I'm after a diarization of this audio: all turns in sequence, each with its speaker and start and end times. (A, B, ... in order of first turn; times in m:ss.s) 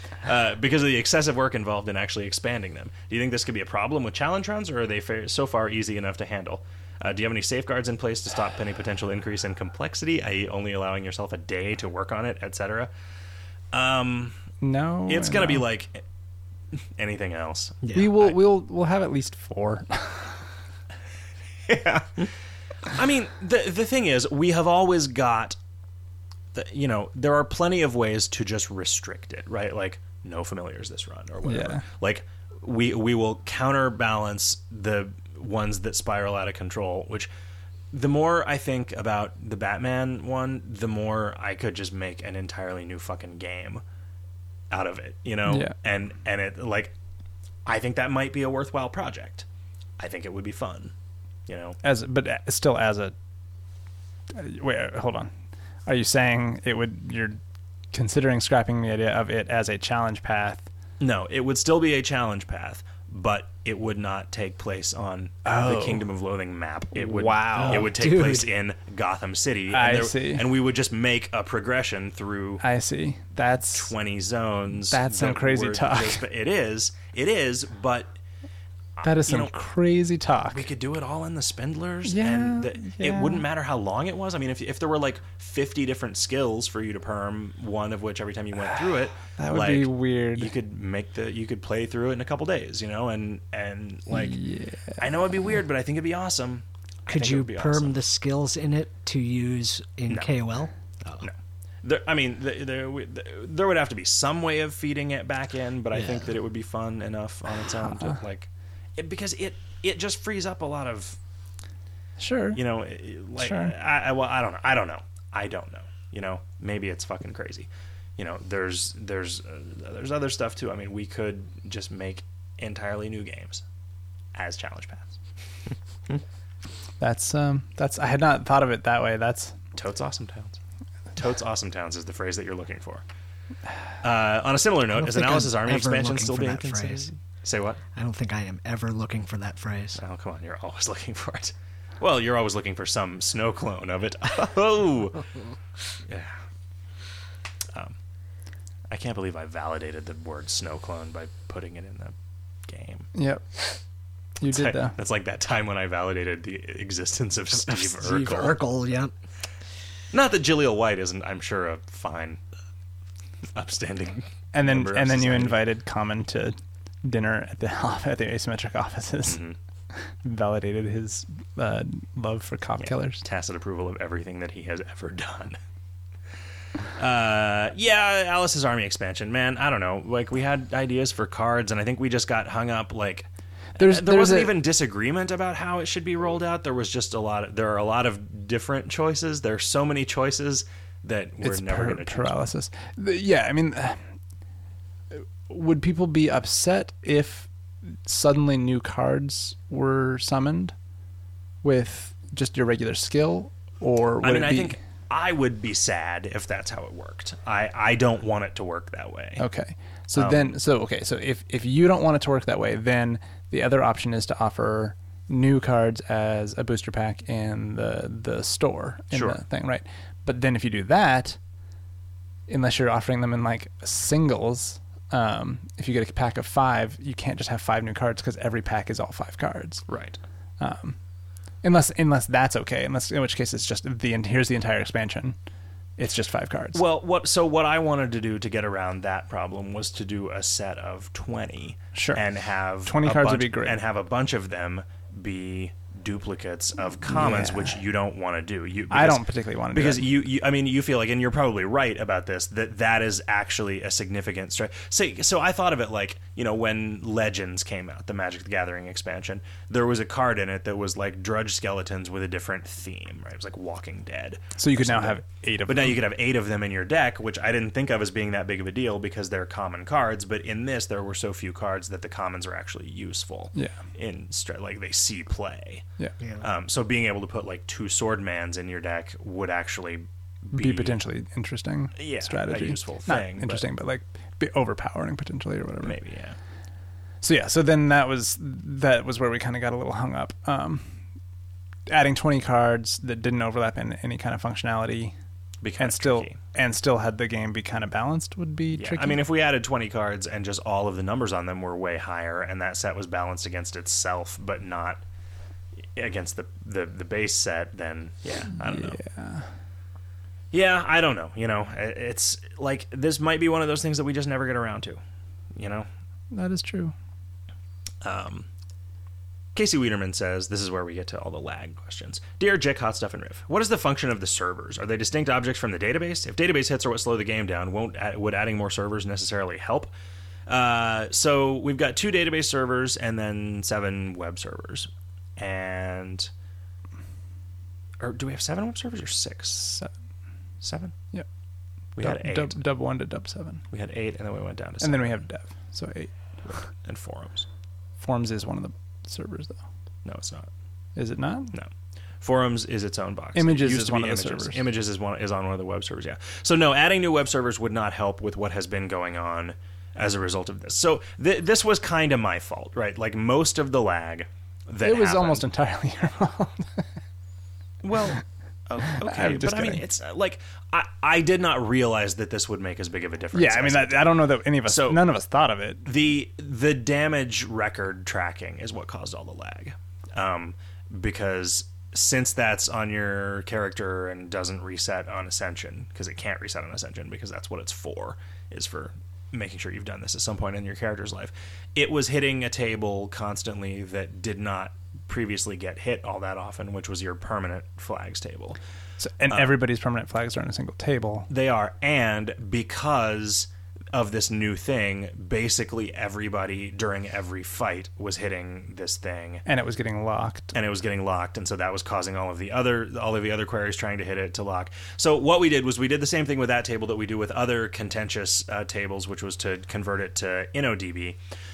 0:00.2-0:12.9 A
0:13.7-0:14.4 A
0:14.6-0:15.6 B
0:15.1-0:16.0 A
0:16.7-0:18.4 A
0:17.8-0:18.1 C
0:17.9-0:20.4 B
0:21.7-0:22.3 A
0:22.8-0:25.6 A
0:26.5-0:37.3 A
0:31.4-0:31.8 B
0:37.9-0:43.8 A
0:44.7-0:46.9 A
0:45.5-0:45.7 B
0:47.6-0:49.4 A
0:50.0-0:50.9 A
0:51.5-0:51.8 A
0:51.8-0:53.1 B
0:54.3-0:55.3 B
0:55.8-0:57.4 B
0:57.9-1:00.7 B
1:01.0-1:12.6 A
1:05.4-1:06.0 B
1:06.9-1:07.9 B
1:07.5-1:08.5 C
1:09.7-1:10.5 B
1:12.6-1:13.9 B
1:13.7-1:18.1 A
1:14.9-1:16.2 B
1:19.0-1:19.5 A
1:19.0-1:20.7 B
1:20.5-1:34.4 A
1:22.0-1:23.4 B
1:29.2-1:30.5 B
1:34.1-1:35.3 B
1:35.0-1:38.0 A
1:37.1-1:41.2 C
1:41.2-1:51.2 A
1:45.9-1:46.3 C
1:47.9-1:48.2 B
1:52.2-1:52.6 B
1:52.5-2:03.6 A
1:53.4-1:53.7 B
2:04.3-2:05.2 A
2:07.0-2:09.6 B
2:09.7-2:10.6 A
2:11.1-2:13.0 A
2:14.0-2:17.8 A
2:15.0-2:17.0 C
2:17.9-2:20.0 C
2:20.0-2:25.2 A
2:26.0-2:26.4 A
2:28.9-2:32.1 A
2:32.7-2:33.1 A
2:33.1-2:33.4 B
2:34.4-2:35.0 B
2:34.4-2:38.6 A
2:37.5-2:39.1 C
2:40.1-2:42.4 A
2:43.5-2:45.6 A
2:44.5-2:53.2 B
2:49.2-2:49.6 A
2:52.8-2:55.6 A
2:57.0-3:12.4 A
3:03.8-3:04.6 B
3:11.4-3:14.0 B
3:15.1-3:20.7 B
3:21.6-3:24.8 B
3:24.2-3:29.4 A
3:29.4-3:41.4 B
3:30.1-3:30.5 A
3:39.1-3:39.4 A
3:42.5-3:49.8 B
3:49.9-3:50.2 A
3:50.6-3:51.0 B
3:51.6-3:55.4 B
3:56.0-3:56.8 B
3:56.7-4:35.8 A
4:01.9-4:02.2 B
4:02.8-4:03.8 B
4:07.0-4:07.7 B
4:08.9-4:10.1 B
4:24.6-4:26.0 B
4:33.5-4:33.8 B
4:36.4-4:41.0 A
4:40.5-4:46.0 B
4:42.0-4:43.7 A
4:45.8-4:46.4 A
4:47.2-4:51.0 B
4:51.9-4:55.2 B
4:55.6-4:56.4 A
4:55.8-4:59.2 B
4:58.7-5:05.0 A
5:05.9-5:09.0 A
5:08.6-5:09.5 B
5:10.5-5:15.0 A
5:15.6-5:15.9 A
5:16.3-5:16.9 B
5:18.0-5:18.5 A
5:19.5-5:29.9 A
5:30.5-5:36.3 A
5:38.0-5:39.8 A
5:40.6-5:40.9 A
5:42.0-5:42.6 A
5:42.0-5:43.6 B
5:43.7-5:45.2 A
5:44.8-5:46.6 B
5:46.5-5:47.5 A
5:48.0-5:49.6 B
5:50.0-5:50.5 A
5:51.0-5:51.5 B
5:52.2-6:05.4 A
5:53.3-5:54.6 B
6:04.8-6:06.9 B
6:07.8-6:15.0 A
6:08.9-6:09.8 B
6:13.3-6:15.8 B
6:15.8-6:38.6 A
6:39.0-6:41.3 B
6:39.3-6:39.5 A
6:41.3-6:49.4 A
6:49.4-6:50.5 B
6:50.5-7:01.2 A